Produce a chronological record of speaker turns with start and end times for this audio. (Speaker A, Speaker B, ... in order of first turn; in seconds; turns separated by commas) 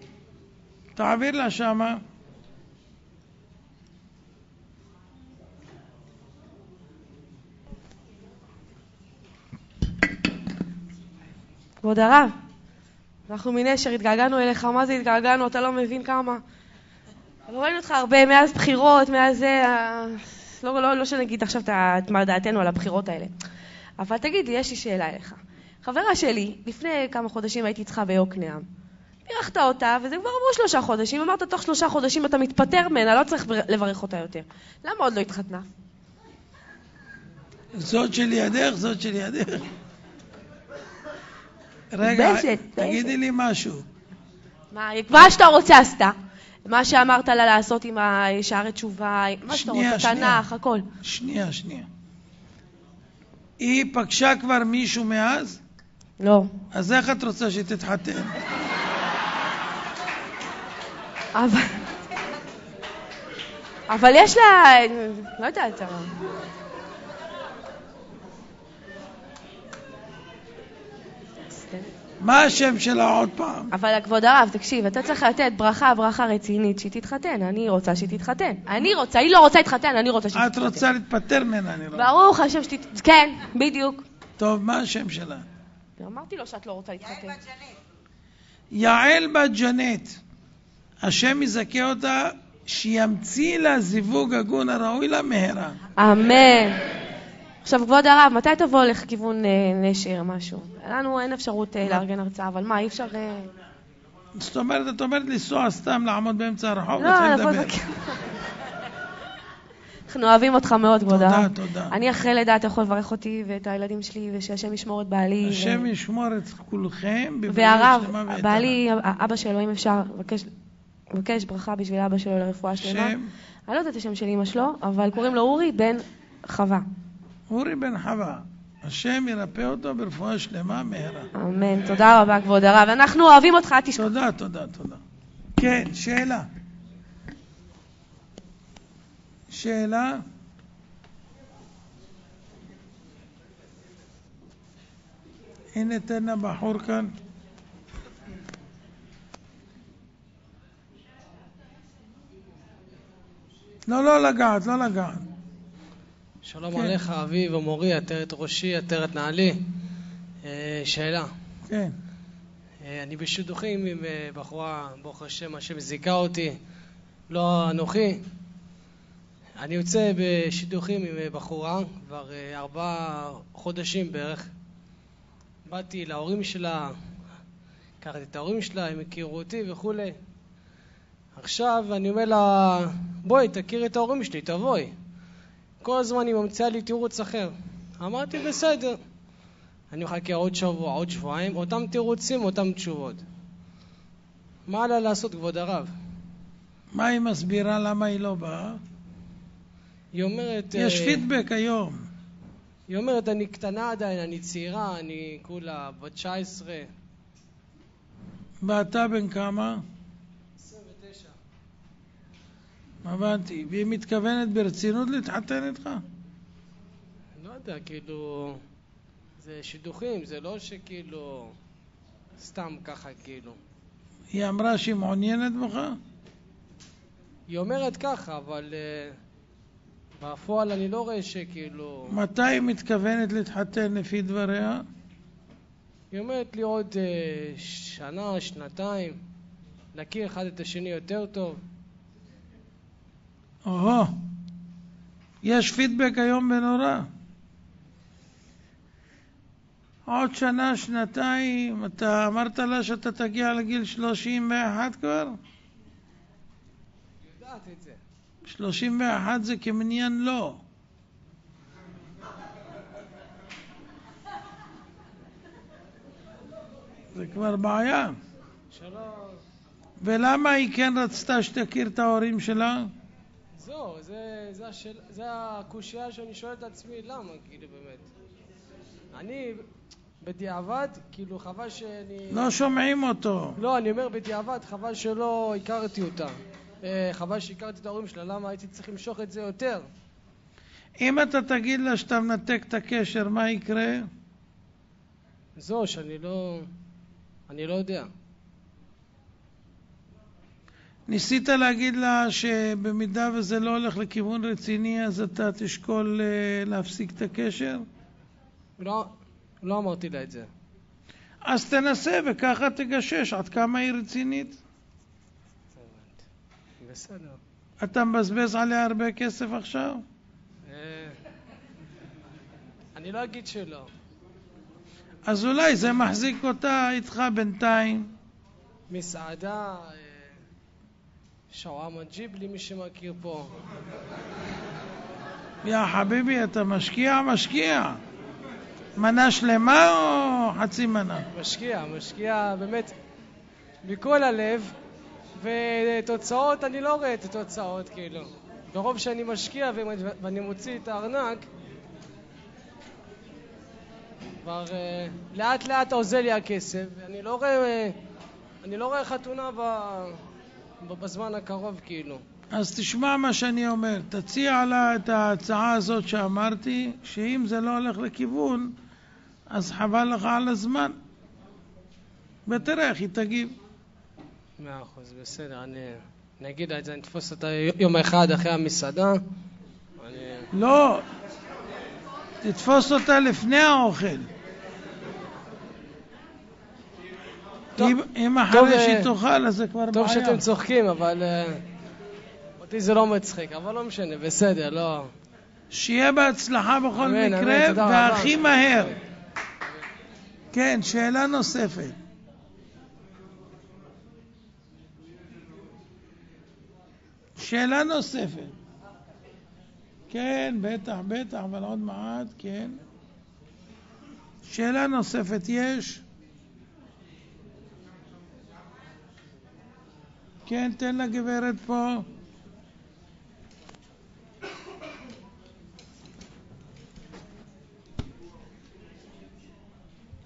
Speaker A: 0.9-2.0, Speaker B: 11.8-12.3, Speaker B: 13.3-16.4, Speaker B: 17.5-23.3, Speaker B: 24.0-28.6, Speaker B: 29.2-35.7, Speaker A: 37.8-39.7, Speaker A: 41.9-43.8, Speaker B: 42.0-43.1, Speaker B: 44.7-50.9, Speaker A: 49.5-50.5, Speaker A: 51.0-51.9, Speaker A: 53.6-55.6, Speaker B: 56.2-56.5, Speaker A: 56.7-58.3, Speaker B: 61.3-61.8, Speaker B: 63.9-66.1, Speaker B: 71.5-71.9, Speaker A: 72.2-73.7, Speaker B: 73.7-80.8, Speaker A: 80.3-82.1, Speaker B: 81.9-84.0, Speaker A: 84.4-85.4, Speaker B: 86.0-87.5, Speaker A: 88.7-90.2, Speaker A: 91.0-95.8, Speaker B: 96.0-96.8, Speaker B: 97.6-103.5, Speaker A: 104.4-107.7, Speaker B: 107.0-108.2, Speaker B: 110.1-115.9, Speaker A: 111.1-111.9, Speaker A: 115.4-118.8, Speaker B: 117.5-120.5, Speaker B: 121.1-123.2, Speaker A: 122.8-123.3, Speaker B: 123.7-126.8, Speaker A: 127.5-131.3, Speaker B: 131.3-134.1, Speaker A: 133.9-135.0, Speaker A: 135.6-136.5, Speaker A: 139.5-140.2, Speaker A: 145.8-147.1, Speaker A: 153.9-155.2, Speaker C: 156.4-159.6, Speaker C: 160.4-161.3, Speaker A: 161.7-161.9, Speaker C: 162.8-166.6, Speaker C: 167.3-168.2, Speaker C: 169.6-174.5, Speaker C: 175.7-176.9, Speaker C: 178.0-180.2, Speaker C: 181.3-184.9, Speaker C: 185.8-189.0, Speaker C: 189.9-193.2, Speaker C: 194.7-195.9, Speaker A: 196.9-198.8, Speaker C: 200.1-201.2, Speaker A: 200.7-202.0, Speaker C: 202.9-206.9, Speaker A: 208.6-209.8, Speaker C: 210.6-211.4, Speaker A: 213.0-216.0, Speaker C: 217.4-218.6, Speaker C: 219.4-221.5, Speaker C: 222.4-223.6, Speaker A: 224.3-226.0, Speaker C: 227.5-229.2, Speaker C: 230.2-232.1, Speaker A: 232.1-234.8, Speaker C: 236.1-239.2, Speaker C: 239.9-241.6, Speaker A: 243.6-244.1, Speaker A: 245.4-247.1, Speaker A: 250.1-255.3, Speaker C: 257.4-258.0, Speaker A: 258.4-260.6, Speaker A: 267.1-268.1, Speaker C: 268.7-269.4, Speaker A: 270.0-272.9, Speaker C: 273.6-278.1, Speaker C: 279.1-279.6, Speaker C: 280.2-282.5, Speaker A: 282.3-283.6, Speaker C: 283.6-289.9, Speaker A: 291.0-294.1, Speaker C: 295.6-296.7, Speaker C: 297.5-298.1, Speaker A: 301.1-307.8, Speaker C: 308.8-309.1, Speaker C: 309.6-310.5, Speaker A: 311.4-314.6, Speaker C: 315.7-316.2, Speaker C: 316.8-317.4, Speaker A: 317.8-320.0, Speaker C: 320.7-321.2, Speaker C: 322.9-323.9, Speaker A: 325.2-328.1, Speaker C: 328.9-330.3, Speaker C: 331.5-333.5, Speaker A: 335.6-338.0, Speaker A: 339.0-341.3, Speaker C: 341.3-342.9, Speaker C: 343.8-344.7, Speaker C: 345.4-351.4, Speaker C: 354.4-358.0, Speaker C: 358.6-360.2, Speaker C: 360.8-362.2, Speaker A: 362.5-368.7, Speaker A: 369.5-370.9, Speaker A: 372.4-373.5, Speaker C: 374.6-379.2, Speaker C: 380.0-380.5, Speaker A: 380.5-381.0, Speaker A: 382.4-384.3, Speaker A: 387.8-390.4, Speaker C: 388.5-389.1, Speaker C: 389.9-391.6, Speaker C: 392.6-395.1, Speaker A: 395.7-398.9, Speaker C: 397.0-399.0, Speaker A: 400.5-402.0, Speaker A: 407.4-408.5, Speaker A: 410.1-412.8, Speaker A: 414.4-416.0, Speaker A: 420.4-422.1